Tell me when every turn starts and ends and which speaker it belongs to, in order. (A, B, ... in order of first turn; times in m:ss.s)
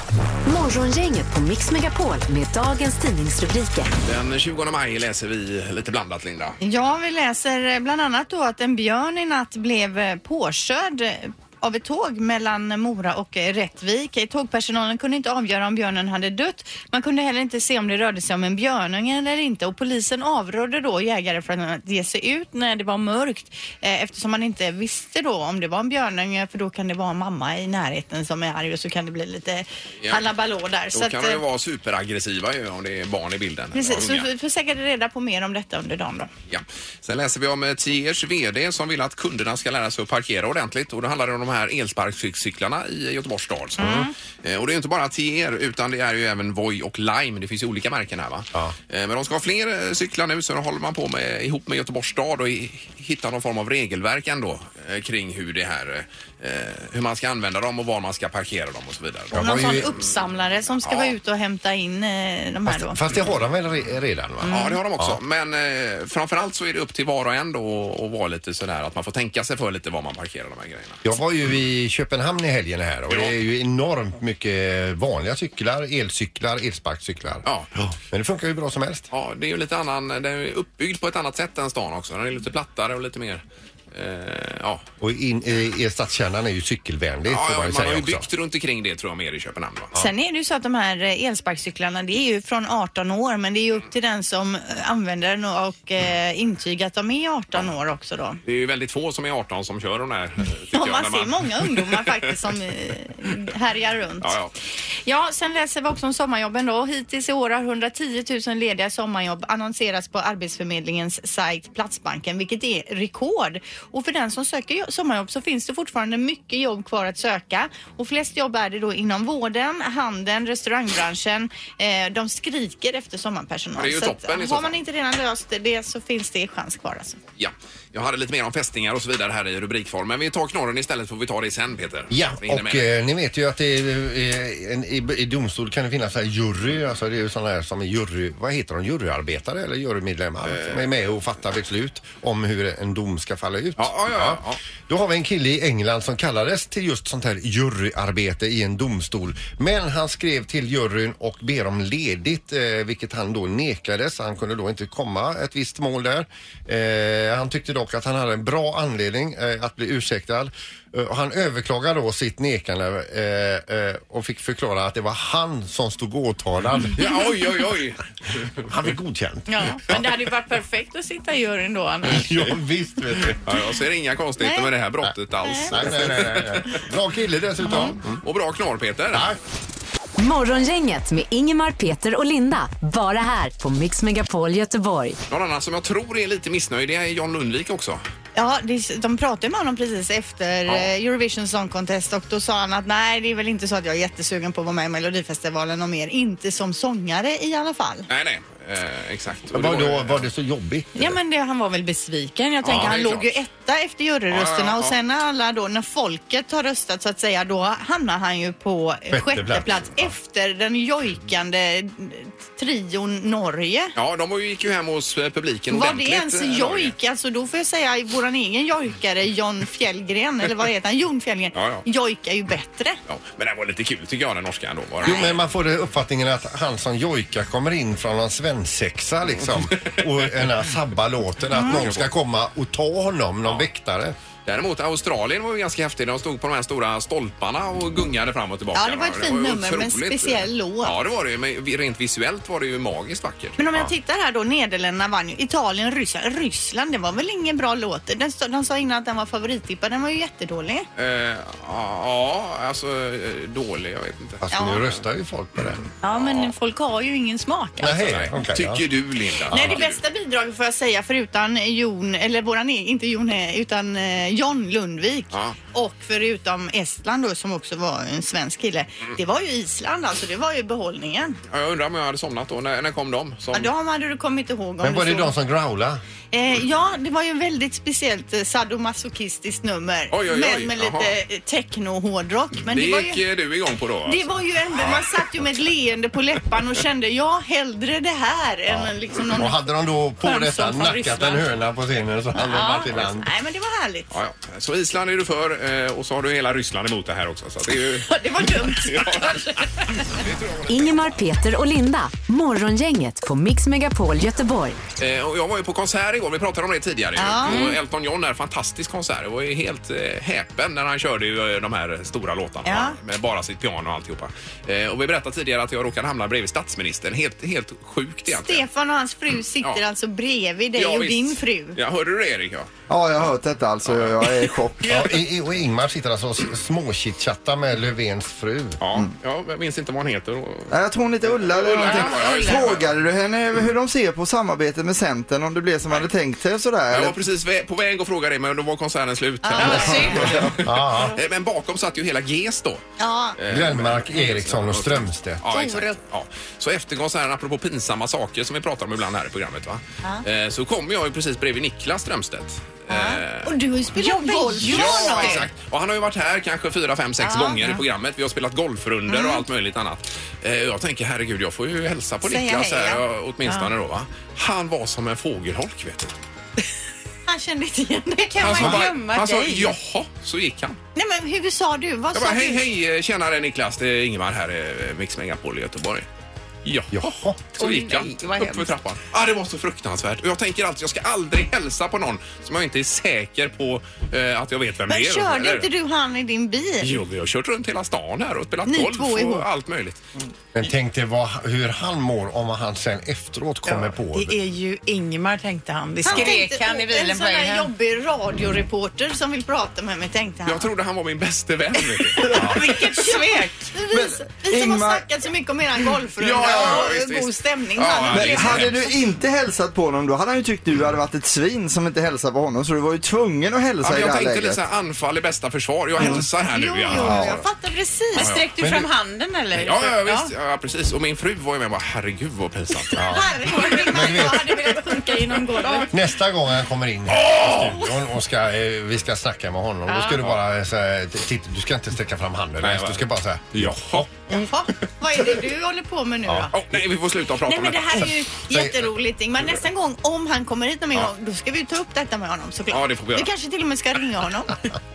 0:00.4-0:03.9 A
0:04.0-0:06.6 B
0:06.6-0:31.4 C
0:30.0-0:30.3 B
0:30.9-0:34.3 B
0:33.7-0:36.3 C
0:36.5-0:59.9 B
0:43.8-0:44.1 C
0:59.3-0:59.9 D
0:59.3-1:03.0 C
1:00.8-1:01.1 B
1:02.6-1:05.2 D
1:04.4-1:04.8 C
1:04.5-1:11.0 B
1:11.0-1:17.4 D
1:13.1-1:13.3 B
1:17.4-1:17.9 B
1:18.1-1:19.1 D
1:19.1-1:24.8 B
1:25.0-1:28.3 D
1:27.3-1:29.9 B
1:29.9-1:38.4 C
1:38.4-1:42.3 B
1:40.7-1:44.3 C
1:44.2-1:44.5 B
1:45.0-2:07.2 C
2:03.8-2:04.8 B
2:07.4-2:12.8 B
2:12.1-2:47.3 D
2:20.4-2:20.9 B
2:23.8-2:24.6 B
2:47.0-2:48.7 B
2:48.7-2:50.0 D
2:49.5-2:52.3 C
2:52.1-2:53.4 D
2:53.3-2:56.8 B
2:54.4-2:54.7 C
2:55.4-2:55.7 C
2:55.7-2:58.1 D
2:57.7-2:59.3 B
2:59.1-2:59.4 D
3:00.2-3:05.2 A
3:05.3-3:08.0 B
3:08.3-3:18.1 C
3:18.1-3:20.2 B
3:19.5-3:21.2 D
3:21.0-3:33.9 C
3:22.6-3:23.4 B
3:24.3-3:25.0 B
3:29.1-3:30.1 D
3:34.0-3:36.9 B
3:35.7-3:43.0 C
3:41.5-3:41.8 B
3:43.1-3:45.4 B
3:45.0-3:54.2 D
3:51.5-3:51.8 C
3:51.6-3:52.1 B
3:54.4-4:03.9 B
3:58.7-4:00.9 C
4:03.6-4:10.8 C
4:11.0-4:15.0 B
4:14.4-4:15.8 D
4:14.5-4:14.8 C
4:15.7-4:16.5 B
4:16.0-4:18.0 C
4:17.8-4:18.9 D
4:17.8-4:20.0 B
4:19.5-4:19.8 D
4:19.5-4:31.4 C
4:25.3-4:25.6 B
4:31.5-4:33.7 B
4:33.5-4:35.3 C
4:34.8-4:36.0 D
4:36.3-4:43.2 C
4:40.1-4:41.1 B
4:42.6-4:44.3 B
4:44.0-4:49.6 C
4:48.7-4:53.3 D
4:50.2-4:51.4 C
4:52.4-4:54.1 C
4:54.1-5:01.2 B
4:57.8-5:00.1 C
5:00.7-5:04.8 A
5:05.0-5:18.6 B
5:07.2-5:07.8 C
5:12.6-5:13.0 C
5:18.3-5:21.8 C
5:20.8-5:22.7 B
5:22.9-5:25.0 E
5:23.9-5:24.5 B
5:24.8-5:28.8 D
5:28.8-5:30.7 B
5:30.7-5:37.2 E
5:31.4-5:32.9 B
5:31.8-5:32.7 F
5:36.9-5:42.8 B
5:39.4-5:40.4 C
5:39.6-5:40.4 F
5:39.7-5:40.2 E
5:40.6-5:41.2 D
5:43.0-5:43.4 C
5:43.4-5:53.6 B
5:43.5-5:45.5 D
5:45.5-5:45.9 C
5:52.9-5:55.5 C
5:54.0-5:55.4 F
5:54.6-6:06.1 B
5:57.2-5:57.8 C
5:59.1-5:59.4 C
6:02.2-6:03.7 C
6:07.3-6:08.8 C
6:08.3-6:09.8 F
6:08.4-6:10.8 B
6:10.9-6:12.6 C
6:12.1-6:16.0 B
6:16.6-6:25.7 B
6:16.9-6:17.4 D
6:17.6-6:18.7 F
6:24.9-6:27.0 C
6:26.8-6:30.0 B
6:28.7-6:29.4 C
6:30.5-6:34.4 D
6:33.7-6:37.7 F
6:36.0-6:40.7 C
6:36.1-6:36.4 B
6:40.4-6:42.7 B
6:42.2-6:48.9 C
6:42.3-6:43.7 F
6:43.9-6:45.0 E
6:46.2-6:48.8 B
6:48.1-6:54.6 E
6:53.8-6:57.4 B
6:56.0-6:58.3 C
6:57.0-6:57.3 E
6:58.1-6:58.8 B
6:58.1-7:00.3 F
6:59.5-7:03.1 B
7:03.0-7:03.3 D
7:03.1-7:05.9 C
7:03.4-7:04.2 F
7:03.9-7:04.6 D
7:05.9-7:14.1 D
7:07.1-7:07.8 B
7:09.9-7:10.2 C
7:10.2-7:10.4 B
7:12.6-7:14.1 B
7:14.3-7:16.5 C
7:16.5-7:18.1 B
7:17.4-7:24.5 C
7:18.0-7:18.8 D
7:22.7-7:23.3 B